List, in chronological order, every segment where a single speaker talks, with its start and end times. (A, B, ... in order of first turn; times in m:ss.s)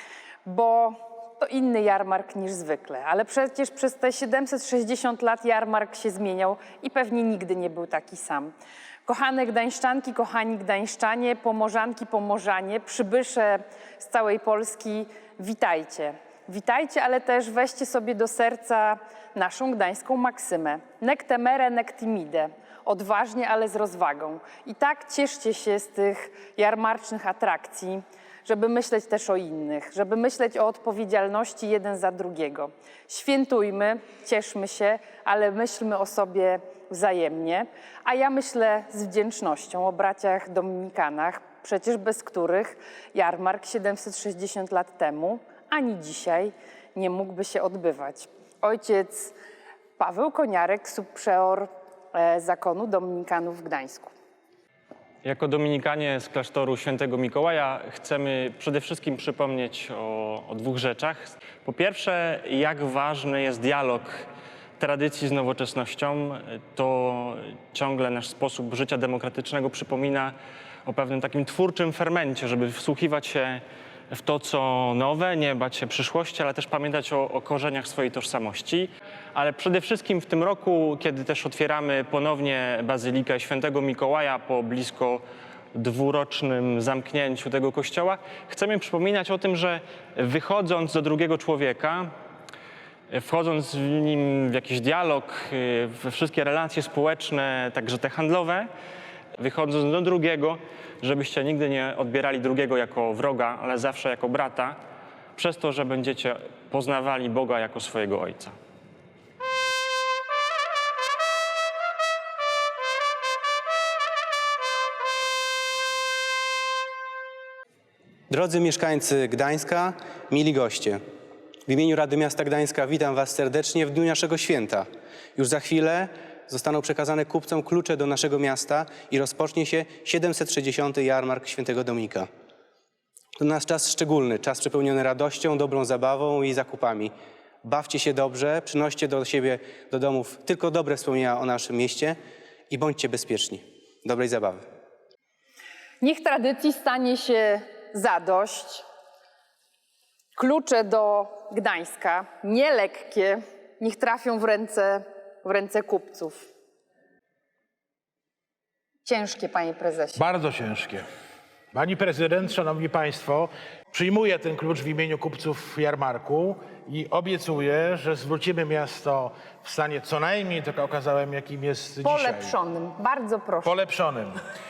0:00.4-0:08.5 A
0:09.1-0:49.3 A
0:50.0-0:54.1 A
0:55.2-1:04.2 B
1:04.8-1:10.4 B
1:10.9-1:25.2 B
1:25.7-1:32.1 B
1:33.1-1:38.7 B
1:39.4-1:44.8 B
1:45.4-1:48.6 B
1:58.3-2:01.0 C
2:01.7-2:12.3 C
2:13.4-2:22.2 C
2:22.7-2:24.6 C
2:26.0-2:28.8 A
2:30.4-2:36.4 A
2:39.0-2:40.2 A
2:40.2-2:41.0 D
2:41.7-2:52.6 D
2:52.0-2:53.8 A
2:53.6-2:54.4 D